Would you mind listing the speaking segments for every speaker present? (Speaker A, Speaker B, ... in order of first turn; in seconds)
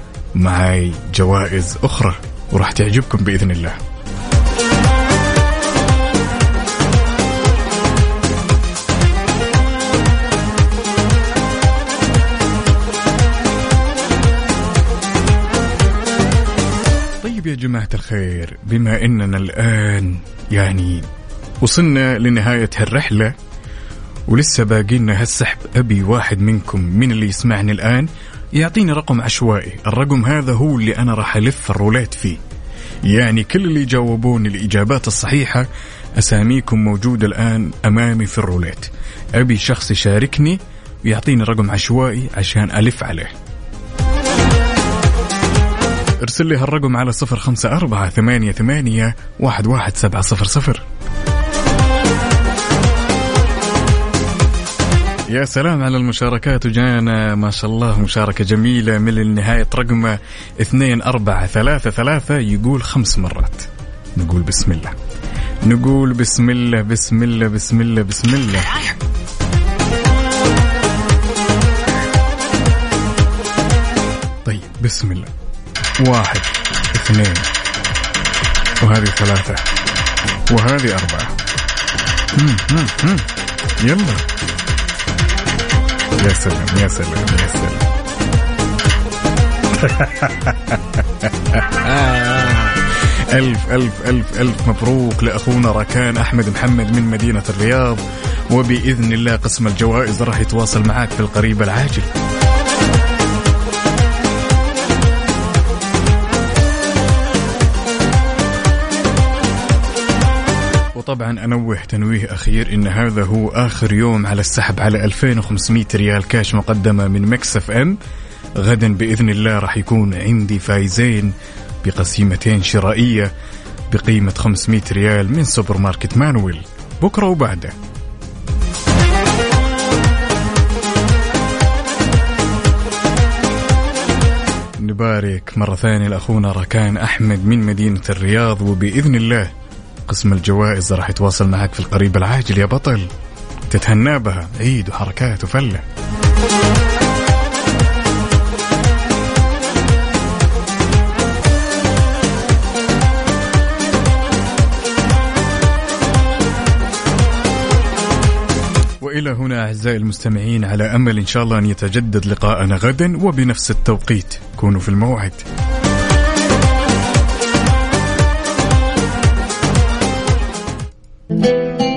Speaker A: 0.4-3.8, 17.2-21.1, 21.6-23.3, 24.3-32.4, 33.1-35.7, 36.2-43.3, 46.2-50.9, 55.3-65.0, 65.6-68.7, 74.4-75.3, 76.0-77.5, 78.8-79.6, 80.5-81.4, 82.3-83.3, 83.8-84.2, 86.2-87.9, 89.7-102.1, 111.0-118.0, 118.6-123.3, 123.9-127.8, 134.8-139.5, 140.1-143.1, 143.7-145.8, 159.0-165.4